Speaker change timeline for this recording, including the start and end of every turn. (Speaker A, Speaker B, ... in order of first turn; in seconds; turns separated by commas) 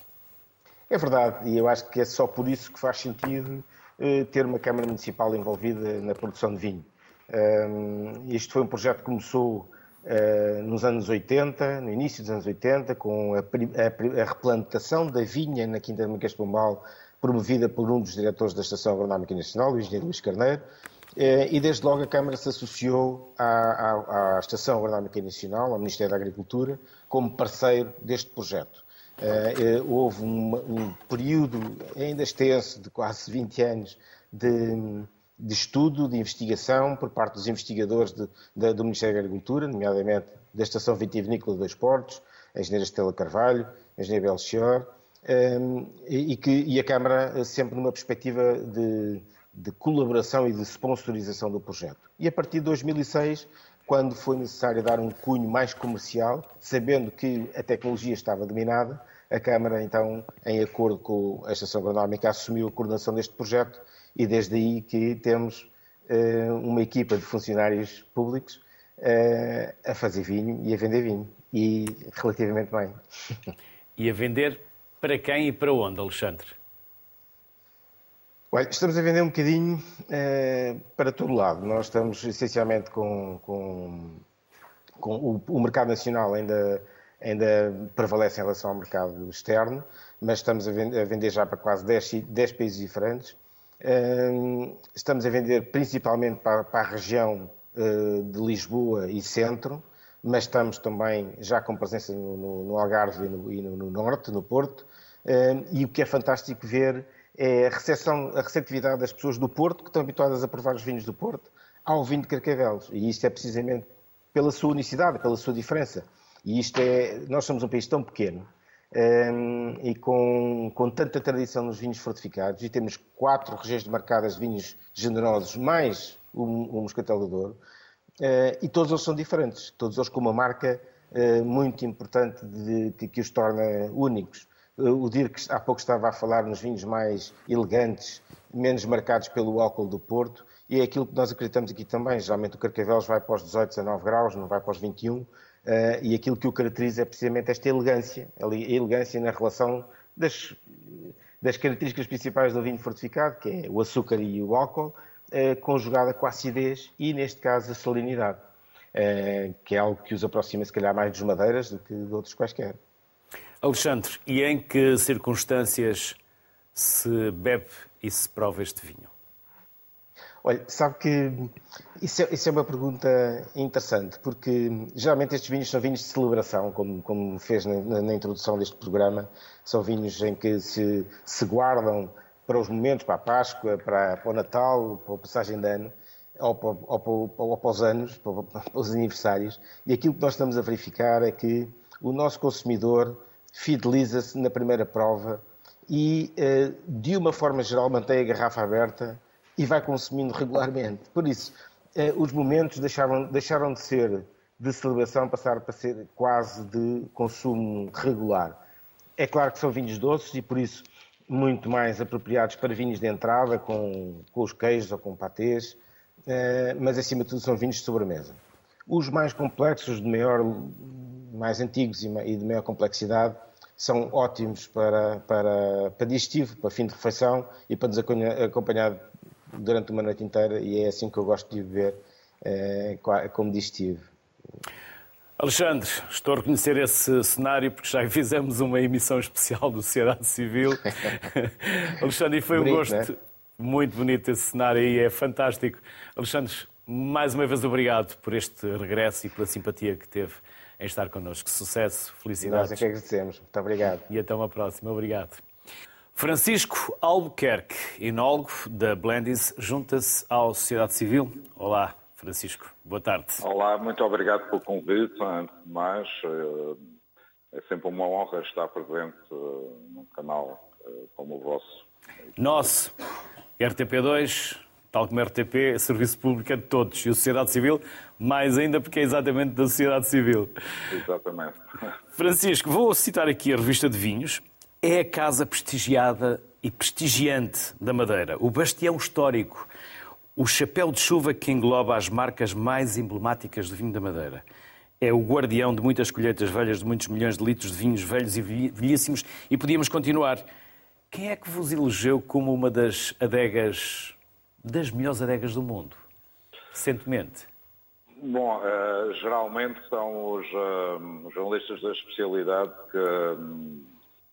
Speaker A: 0.9-20.6, Speaker A: 21.2-73.0, Speaker B: 74.0-76.6, Speaker A: 78.5-84.2, Speaker A: 85.0-127.6, Speaker A: 128.2-162.8, Speaker B: 163.6-166.2, Speaker B: 166.7-169.1, Speaker A: 170.4-208.6, Speaker A: 209.2-234.1, Speaker B: 235.4-252.8, Speaker A: 242.5-243.1, Speaker A: 252.4-254.0, Speaker B: 254.1-255.4, Speaker B: 256.1-263.4, Speaker C: 263.4-266.8, Speaker C: 267.5-271.7, Speaker B: 272.4-272.9, Speaker B: 273.6-280.5, Speaker C: 280.9-281.6, Speaker B: 282.2-289.7, Speaker B: 290.4-294.4, Speaker B: 295.0-300.4, Speaker B: 301.1-306.0, Speaker B: 306.7-307.5, Speaker C: 308.2-313.9